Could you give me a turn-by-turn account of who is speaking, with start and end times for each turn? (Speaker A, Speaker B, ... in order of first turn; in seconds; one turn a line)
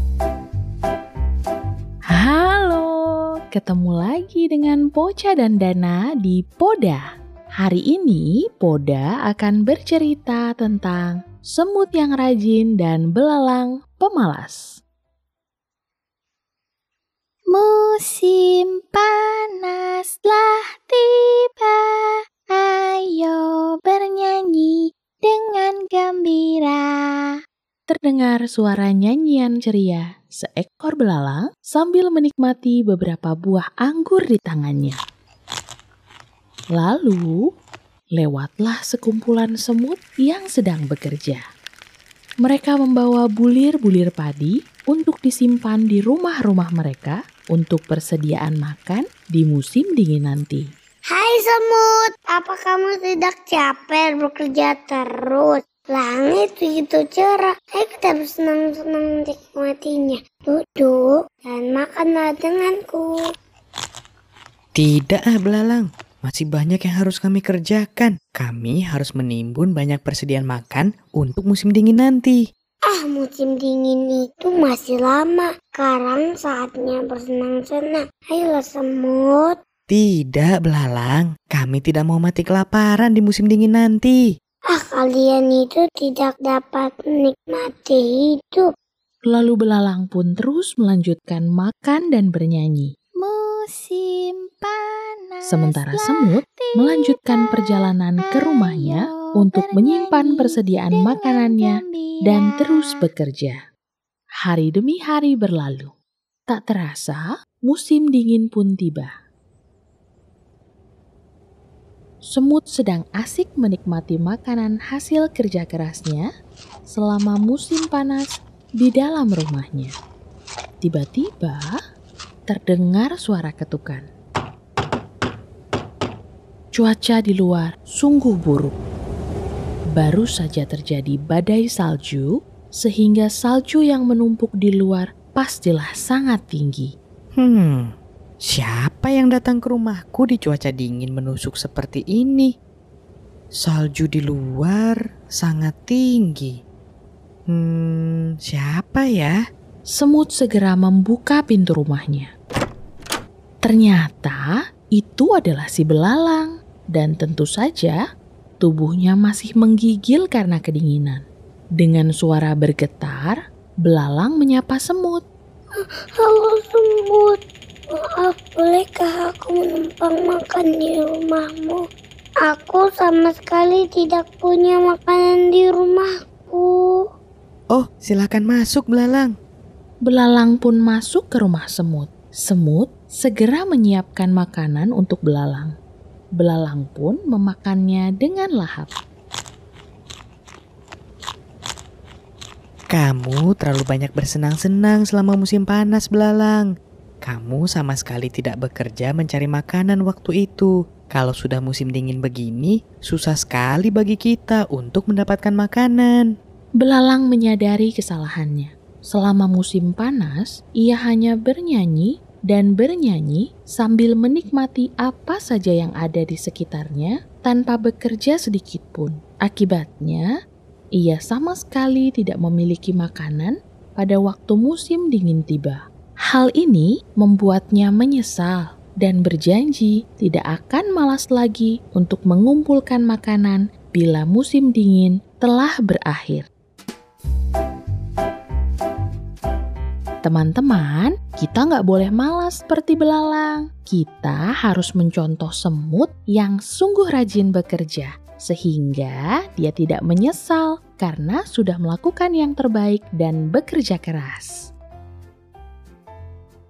Speaker A: 2.1-7.0
Speaker A: 7.6-14.8
Speaker B: 17.5-27.4
Speaker A: 27.9-35.0
Speaker A: 36.8-37.4
Speaker A: 38.2-41.4
Speaker A: 42.4-50.6
Speaker C: 51.1-63.2
Speaker D: 64.8-72.4
Speaker C: 72.9-79.6
Speaker D: 79.9-84.2
Speaker C: 84.7-88.7
Speaker A: 89.3-92.9
Speaker B: 93.2-103.0
Speaker A: 95.5-103.6
Speaker A: 104.4-105.9
Speaker A: 106.5-109.1
Speaker A: 112.3-116.2
Speaker A: 116.9-119.9
Speaker A: 120.8-121.8
Speaker A: 122.5-124.0
Speaker A: 126.8-128.8
Speaker A: 129.9-136.9
Speaker D: 137.3-137.9
Speaker D: 138.4-142.5
Speaker D: 143.6-146.5
Speaker D: 147.5-149.3
Speaker A: 149.9-152.3
Speaker A: 153.6-158.0
Speaker A: 158.6-161.2
Speaker A: 161.8-165.2
Speaker C: 165.8-167.4
Speaker C: 167.9-171.8
Speaker C: 172.4-177.1
Speaker D: 177.7-179.3
Speaker A: 180.1-185.7
Speaker A: 186.4-188.9
Speaker D: 192.9-196.7
Speaker D: 197.2-206.3
Speaker A: 206.8-220.3
Speaker A: 221.0-236.5
Speaker A: 240.2-254.7